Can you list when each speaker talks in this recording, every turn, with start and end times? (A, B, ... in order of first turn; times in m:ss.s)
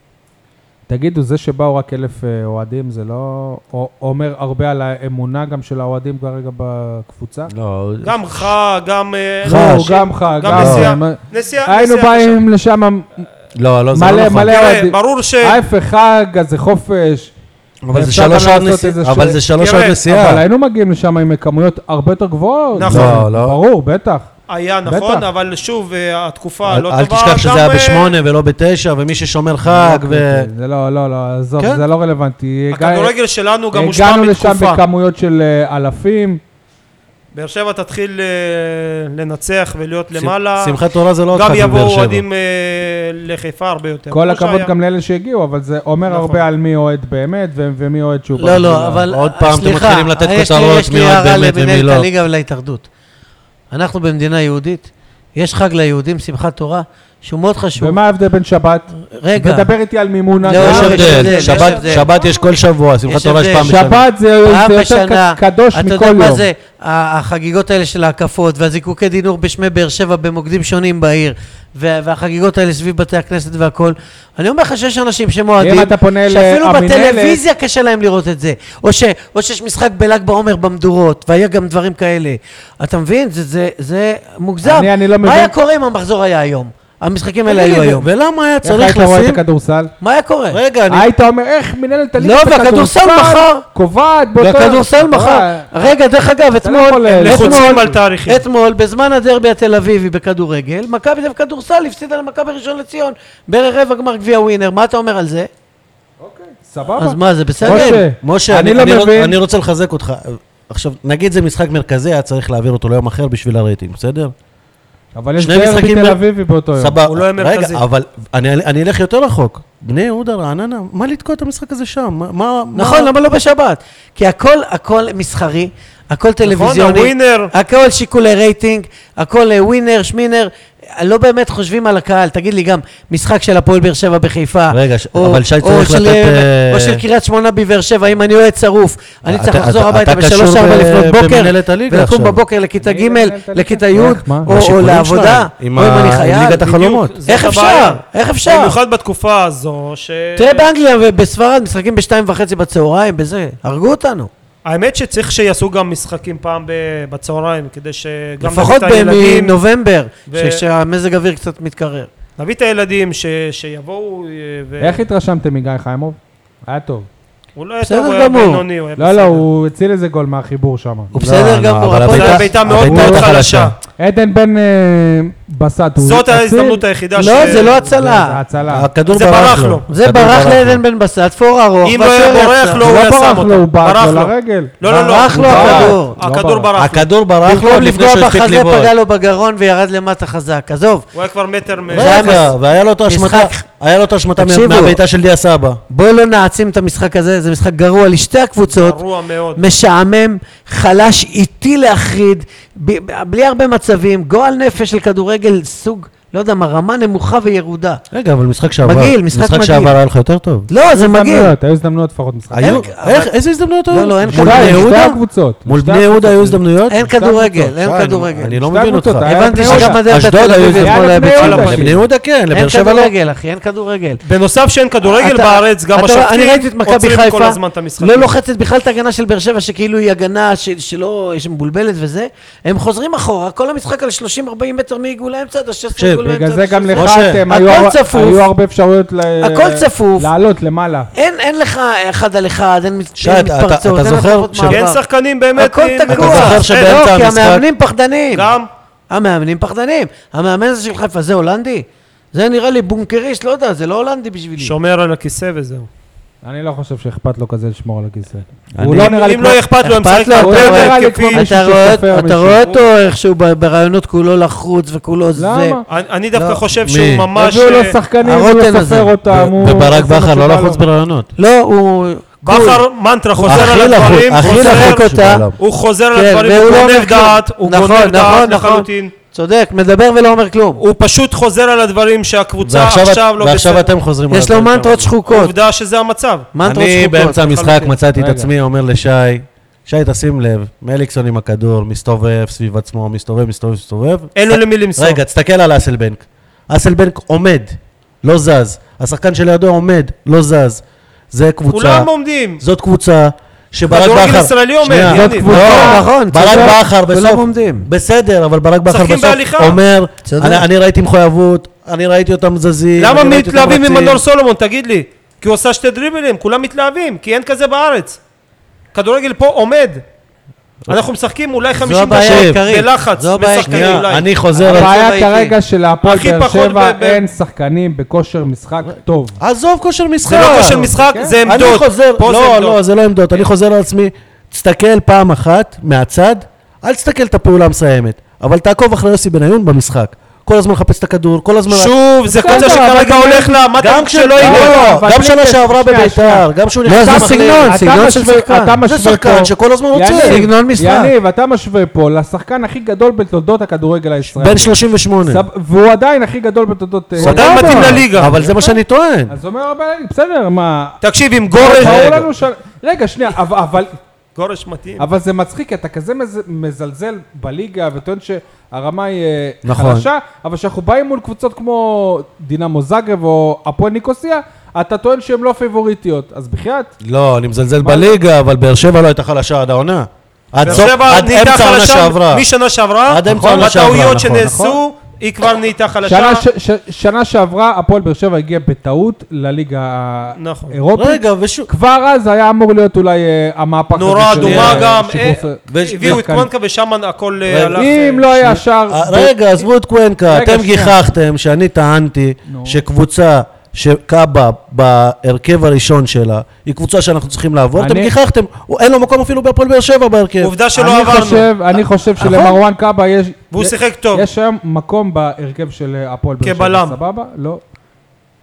0:00.9-0:07.5 A
0:07.5-0:08.5 B
0:08.0-0:12.4 C
0:09.4-0:09.9 B
0:09.4-0:13.3 A
0:10.5-0:10.9 B
0:13.6-0:14.6 B
0:13.9-0:17.3 A
0:14.5-0:15.6 C
0:17.8-0:20.4 B
0:17.9-0:19.4 A
0:19.6-0:20.0 C
0:20.1-0:24.3 A
0:22.8-0:23.2 C
0:22.8-0:23.6 B
0:24.5-0:28.1 C
0:24.9-0:25.3 A
0:26.6-0:30.5 B
0:29.6-0:33.1 A
0:32.7-0:34.8 C
0:33.7-0:36.4 A
0:37.3-0:40.8 C
0:40.2-0:42.2 B
0:41.3-0:44.7 C
0:44.1-0:49.0 A
0:46.1-0:46.4 C
0:48.4-0:52.9 D
0:49.1-0:52.1 B
0:53.7-0:58.0 D
0:57.8-1:02.3 A
0:59.2-0:59.7 D
1:00.4-1:02.1 D
1:00.5-1:04.0 B
1:01.1-1:01.7 C
1:03.1-1:03.8 D
1:03.6-1:06.5 A
1:04.4-1:28.1 D
1:15.6-1:17.4 A
1:24.6-1:25.5 A
1:27.5-1:29.4 B
1:28.6-1:29.9 A
1:30.0-1:30.6 D
1:30.5-1:31.1 B
1:30.9-1:35.7 A
1:32.2-1:33.6 D
1:34.4-1:45.5 D
1:36.6-1:37.9 A
1:37.2-1:38.4 C
1:46.2-1:49.4 A
1:47.0-1:48.0 D
1:47.6-1:54.3 B
1:55.2-1:57.0 A
1:55.4-1:56.2 B
1:56.8-2:03.1 B
1:57.1-1:57.8 C
2:02.8-2:26.7 D
2:06.4-2:07.5 C
2:14.7-2:17.0 B
2:19.3-2:22.4 B
2:22.8-2:24.5 A
2:24.0-2:27.2 B
2:26.6-2:30.7 C
2:27.3-2:28.8 D
2:30.4-2:34.3 D
2:34.6-2:39.6 C
2:38.4-2:42.1 D
2:40.3-2:40.6 C
2:42.4-2:45.0 C
2:44.8-2:47.1 A
2:47.6-2:49.4 C
2:47.8-2:48.6 D
2:49.0-2:51.1 A
2:51.1-2:53.2 D
2:51.2-2:53.7 B
2:52.0-2:53.8 C
2:54.0-2:58.9 A
2:56.0-2:57.7 C
2:57.2-2:58.4 D
2:58.7-3:00.8 B
2:59.1-2:59.8 C
2:59.9-3:02.9 D
3:01.8-3:07.1 C
3:02.8-3:04.7 A
3:04.8-3:06.2 D
3:05.3-3:06.0 B
3:05.4-3:06.7 A
3:06.8-3:08.9 B
3:07.4-3:11.0 D
3:11.1-3:12.5 C
3:11.9-3:15.8 B
3:11.9-3:13.6 D
3:14.4-3:15.0 D
3:15.9-3:19.0 D
3:18.7-3:19.6 C
3:19.6-3:28.0 D
3:28.1-3:30.7 B
3:28.8-3:30.0 D
3:30.7-3:31.5 D
3:30.9-3:32.9 A
3:32.5-3:35.0 B
3:32.6-3:33.3 D
3:33.9-3:35.2 D
3:34.3-3:37.7 A
3:35.7-3:43.1 B
3:36.9-3:38.6 D
3:38.6-3:40.0 A
3:39.2-3:41.9 D
3:40.6-3:42.0 A
3:41.4-3:41.9 C
3:42.5-3:44.2 D
3:44.2-3:48.4 C
3:45.0-3:58.5 D
3:56.0-3:56.3 B
3:56.2-4:01.1 A
3:56.9-3:57.4 B
3:59.4-4:00.3 D
4:01.1-4:05.0 D
4:03.2-4:04.8 B
4:04.7-4:07.0 C
4:05.6-4:08.5 D
4:06.1-4:07.6 B
4:08.3-4:08.7 C
4:09.1-4:14.7 D
4:14.6-4:15.9 C
4:16.4-4:19.6 A
4:18.7-4:19.1 B
4:18.9-4:21.5 C
4:19.8-4:25.8 D
4:20.4-4:22.7 A
4:22.6-4:22.9 C
4:25.4-4:25.8 A
4:25.9-4:28.0 C
4:26.4-4:26.6 D
4:26.8-4:27.3 B
4:27.4-4:30.8 A
4:28.2-4:29.2 D
4:29.3-4:31.3 B
4:31.4-4:32.8 D
4:32.4-4:39.1 C
4:33.4-4:35.4 D
4:33.5-4:35.6 B
4:36.1-4:40.8 D
4:40.8-4:43.9 C
4:42.6-4:45.1 B
4:44.3-4:45.5 D
4:45.3-4:46.5 C
4:46.5-4:47.5 D
4:46.6-5:02.1 B
4:47.4-4:48.0 C
4:48.1-4:48.5 A
4:54.4-4:55.2 C
5:01.7-5:02.6 C
5:02.6-5:14.2 B
5:03.9-5:06.0 C
5:05.0-5:06.8 A
5:05.5-5:07.9 D
5:08.9-5:09.8 C
5:10.2-5:10.6 D
5:13.0-5:18.2 C
5:18.9-5:20.0 C
5:20.9-5:24.3 C
5:21.8-5:24.0 D
5:22.1-5:22.6 B
5:23.6-5:24.9 B
5:24.6-5:25.5 D
5:24.7-5:29.4 A
5:26.0-5:27.2 C
5:29.4-5:30.9 B
5:30.2-5:32.8 C
5:30.3-5:31.4 A
5:31.4-5:41.9 B
5:41.7-5:44.8 C
5:42.3-5:43.6 A
5:42.5-5:42.8 B
5:43.8-5:47.8 B
5:44.4-5:46.5 A
5:46.8-5:48.8 D
5:47.1-5:54.8 A
5:48.9-5:50.5 B
5:50.1-5:51.1 D
5:54.3-5:55.4 B
5:55.3-5:58.8 A
5:57.2-5:59.3 B
5:57.2-5:58.4 C
5:59.3-6:01.0 A
6:01.0-6:02.2 C
6:01.5-6:04.0 A
6:01.6-6:02.3 B
6:04.4-6:05.1 C
6:05.0-6:16.9 A
6:09.6-6:10.1 B
6:17.0-6:22.4 B
6:17.8-6:18.2 A
6:20.6-6:26.4 C
6:23.1-6:24.5 B
6:23.3-6:24.8 A
6:26.1-6:36.5 A
6:30.4-6:30.8 C
6:31.0-6:31.7 B
6:34.0-6:38.3 C
6:34.4-6:34.9 B
6:35.7-6:36.3 B
6:37.5-6:50.5 B
6:37.8-6:39.6 A
6:40.3-6:41.0 A
6:42.5-6:42.8 A
6:47.8-6:48.1 A
6:50.4-6:51.5 C
6:50.8-6:57.6 A
6:52.2-6:52.6 B
6:53.5-6:54.3 C
6:56.4-6:57.0 C